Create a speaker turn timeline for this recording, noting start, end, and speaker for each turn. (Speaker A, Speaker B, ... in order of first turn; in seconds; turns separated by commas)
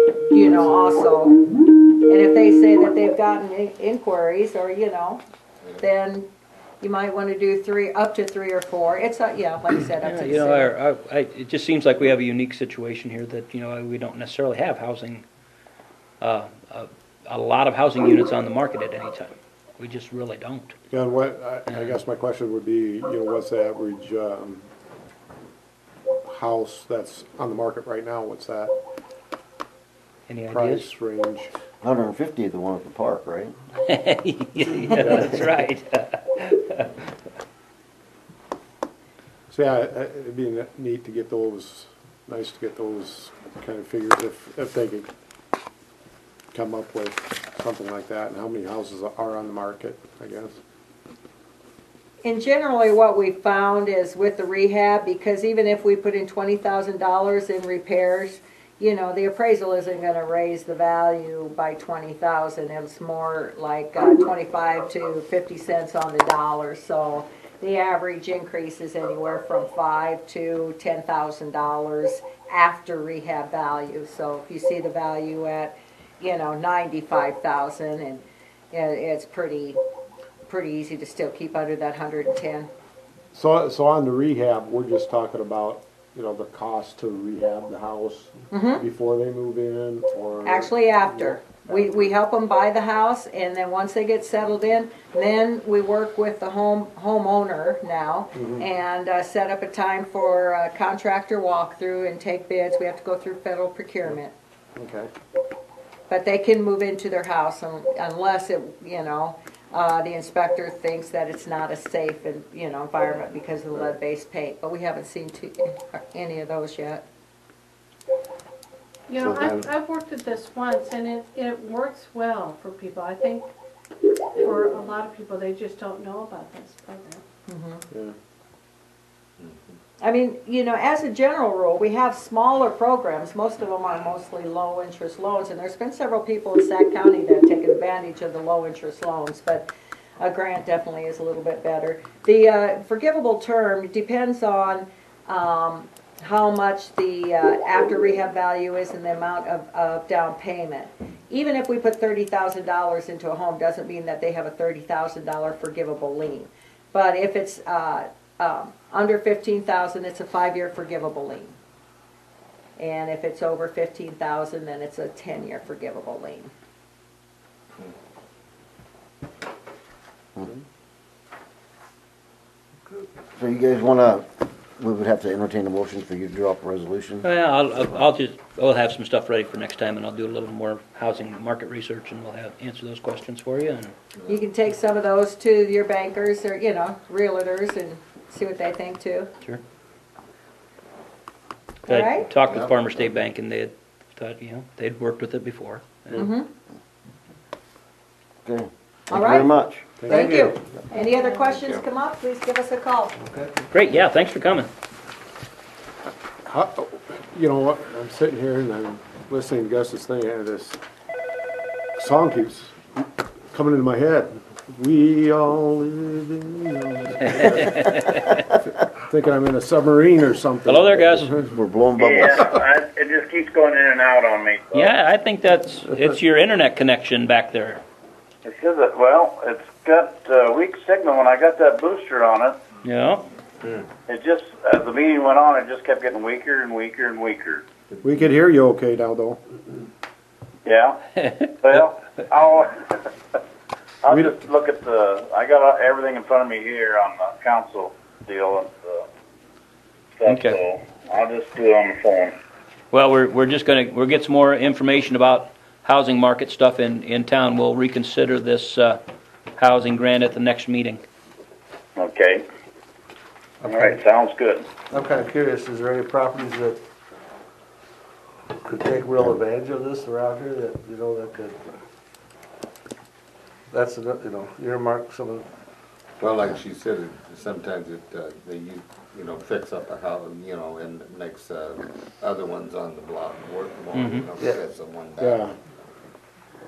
Speaker A: 0.3-1.4, Speaker A: 2.0-5.2, Speaker A: 5.8-6.3, Speaker A: 6.8-10.7, Speaker B: 10.0-15.2, Speaker B: 16.2-20.8, Speaker C: 20.9-24.7, Speaker B: 21.7-22.0, Speaker C: 26.2-28.7, Speaker B: 30.3-30.9, Speaker C: 30.5-31.5, Speaker D: 31.8-33.5, Speaker B: 33.8-36.9, Speaker C: 35.0-35.3, Speaker C: 39.5-45.1, Speaker C: 46.5-50.6, Speaker A: 52.2-79.8, Speaker A: 80.5-82.7, Speaker C: 83.3-91.7, Speaker A: 88.5-88.8, Speaker A: 90.5-104.3, Speaker C: 98.4-98.7, Speaker C: 104.8-105.1, Speaker A: 106.1-117.0, Speaker E: 119.1-123.5, Speaker E: 124.4-127.2, Speaker A: 127.5-127.8, Speaker A: 130.0-139.7, Speaker A: 140.2-161.5, Speaker A: 162.8-166.5, Speaker D: 173.3-174.3, Speaker D: 174.8-177.3, Speaker B: 177.2-183.9, Speaker A: 184.3-189.3, Speaker B: 191.9-196.3, Speaker A: 191.9-192.3, Speaker F: 192.4-192.8, Speaker A: 196.2-196.5, Speaker D: 198.4-199.9, Speaker A: 199.1-199.5, Speaker C: 200.0-200.3, Speaker A: 200.1-203.2, Speaker G: 200.1-200.6, Speaker G: 203.2-203.6, Speaker B: 203.7-204.7, Speaker C: 206.4-210.8, Speaker C: 212.0-217.9, Speaker B: 217.4-218.3, Speaker C: 218.9-221.5, Speaker B: 220.7-221.3, Speaker D: 221.4-222.4, Speaker H: 222.0-224.8, Speaker B: 224.7-227.8, Speaker H: 228.4-232.6, Speaker B: 232.8-233.3, Speaker H: 234.1-237.7, Speaker C: 238.0-239.4, Speaker H: 240.7-241.0, Speaker H: 241.6-242.8, Speaker H: 244.0-249.1, Speaker C: 244.1-244.4, Speaker H: 250.2-252.4, Speaker B: 250.3-250.6, Speaker B: 252.9-259.0, Speaker B: 259.6-261.0, Speaker H: 262.0-262.4, Speaker G: 263.6-264.0, Speaker H: 263.7-264.7, Speaker G: 264.9-266.8, Speaker G: 268.6-271.6, Speaker G: 273.7-275.5, Speaker H: 276.2-276.5, Speaker F: 276.3-284.0, Speaker B: 283.9-284.3, Speaker H: 284.0-285.1, Speaker F: 284.8-285.4, Speaker C: 285.2-285.5